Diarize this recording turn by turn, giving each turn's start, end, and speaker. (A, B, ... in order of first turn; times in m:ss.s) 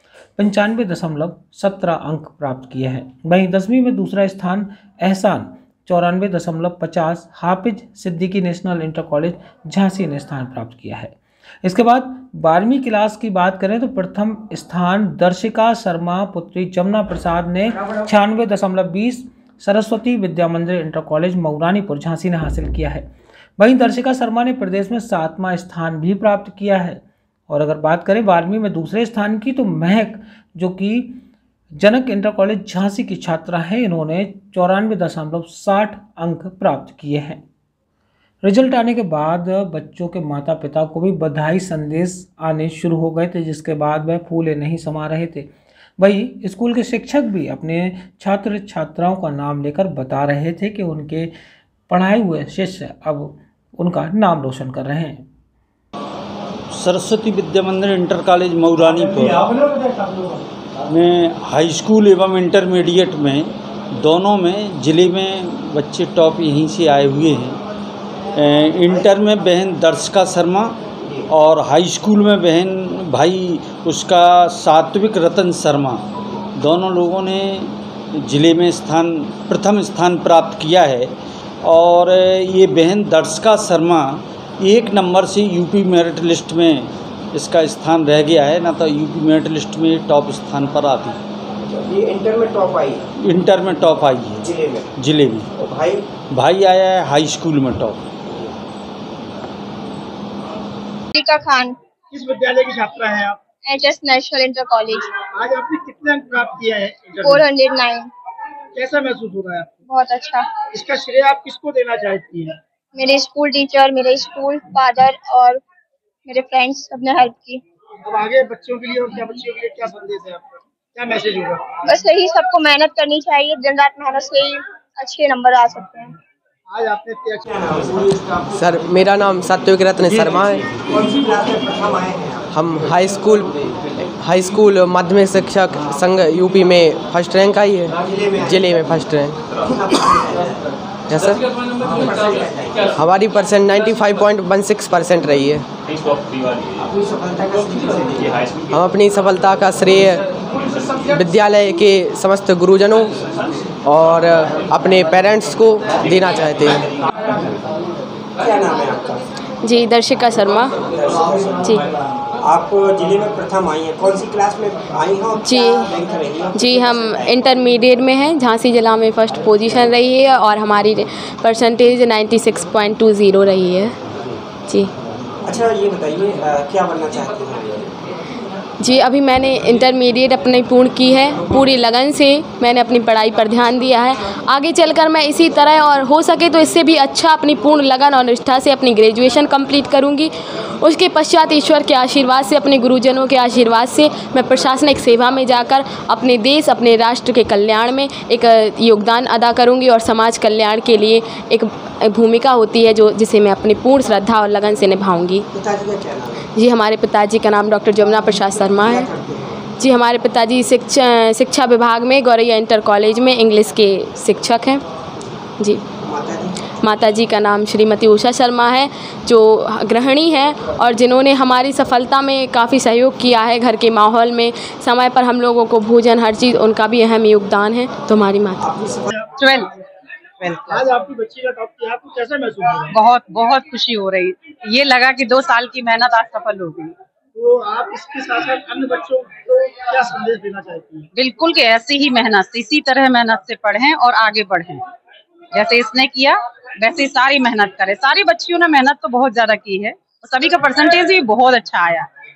0:00.4-0:31.2 A
0:31.8-0:37.4 A
0:38.4-0:51.3 A
0:51.9-0:55.3 A
0:56.7-0:59.6 B
1:00.9-1:07.6 B
1:08.4-1:10.8 B
1:11.3-1:16.0 B
1:16.6-1:21.1 B
1:21.6-1:31.2 B
1:31.7-1:33.0 C
1:33.3-1:34.4 B
1:34.4-1:34.9 C
1:35.0-1:35.5 B
1:35.6-1:36.1 C
1:36.3-1:38.1 B
1:41.1-1:41.8 D
1:42.1-1:43.4 E
1:43.6-1:45.2 D
1:45.3-1:47.4 E
1:47.2-1:48.1 D
1:48.8-1:49.7 E
1:49.9-1:50.6 D
1:50.7-1:52.5 E
1:53.0-1:55.6 D
1:56.3-1:57.6 D
1:58.0-2:01.7 E
2:01.8-2:06.2 D
2:06.7-2:07.8 E
2:08.6-2:10.6 F
2:10.8-2:12.5 C
2:12.5-2:19.4 F
2:18.1-2:18.7 C
2:19.6-2:20.6 C
2:21.1-2:21.4 F
2:21.8-2:22.9 C
2:23.0-2:25.7 F
2:26.8-2:28.4 C
2:28.7-2:30.2 F
2:31.1-2:33.2 F
2:33.8-2:36.8 F
2:38.4-2:39.2 C
2:39.6-2:40.7 G
2:40.9-2:41.7 C
2:42.4-2:47.4 C
2:45.4-2:45.9 G
2:46.6-2:54.0 G
2:55.4-2:57.9 C
2:58.8-3:25.5 G
3:25.5-3:26.4 C
3:26.6-3:29.1 G
3:28.8-3:29.6 C
3:29.8-3:34.8 G
3:36.0-3:36.5 C
3:36.8-3:48.7 G
3:48.8-3:49.0 C
3:49.4-3:49.7 H
3:50.4-3:50.9 H
3:50.7-3:52.9 E
3:52.9-3:56.9 H
3:57.4-4:01.1 E
4:01.2-4:04.8 H
4:05.5-4:12.1 H